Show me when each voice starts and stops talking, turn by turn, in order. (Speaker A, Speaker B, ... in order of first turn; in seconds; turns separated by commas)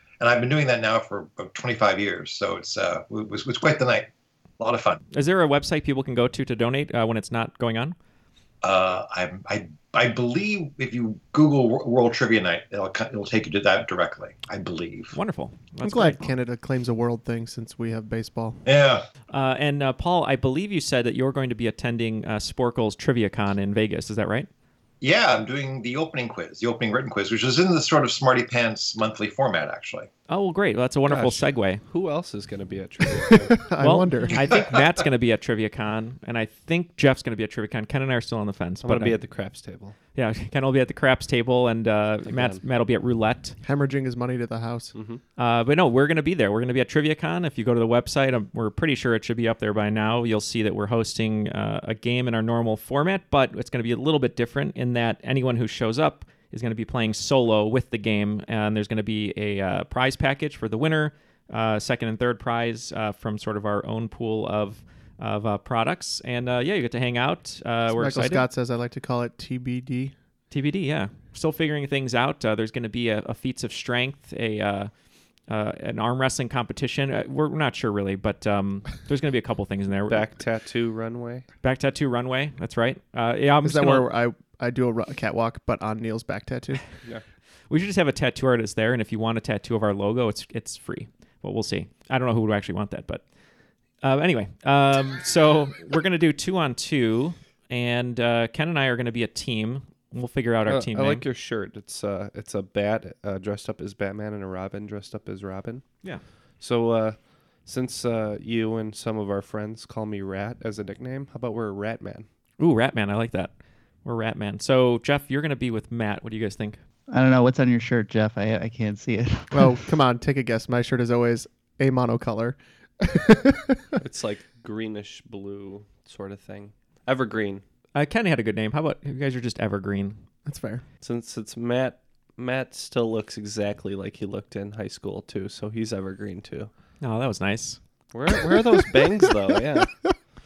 Speaker A: 0.2-4.1, Speaker A: 4.6-5.0, Speaker B: 5.1-8.0, Speaker A: 8.6-15.2, Speaker B: 15.1-16.3, Speaker C: 15.8-18.6, Speaker A: 18.7-19.1, Speaker B: 19.3-24.5, Speaker A: 25.0-30.1, Speaker B: 30.3-31.8, Speaker D: 31.1-33.5, Speaker C: 33.3-34.5, Speaker B: 33.8-39.2, Speaker D: 38.8-40.0, Speaker B: 40.1-43.6, Speaker D: 42.3-42.6, Speaker C: 43.6-45.0, Speaker D: 45.0-45.2, Speaker B: 45.4-68.5, Speaker C: 67.9-70.1, Speaker B: 70.5-74.9, Speaker B: 75.5-80.3, Speaker D: 80.1-81.5, Speaker B: 81.6-84.1, Speaker C: 83.6-86.9, Speaker B: 87.7-93.2, Speaker B: 94.0-101.2, Speaker D: 100.7-105.8, Speaker D: 106.6-112.3, Speaker B: 112.6-113.5, Speaker B: 114.0-116.8, Speaker E: 117.1-119.8, Speaker C: 119.5-124.0, Speaker D: 124.0-127.6, Speaker B: 128.0-130.2, Speaker C: 130.5-130.8, Speaker D: 131.0-136.7, Speaker B: 137.0-137.8, Speaker D: 138.1-139.9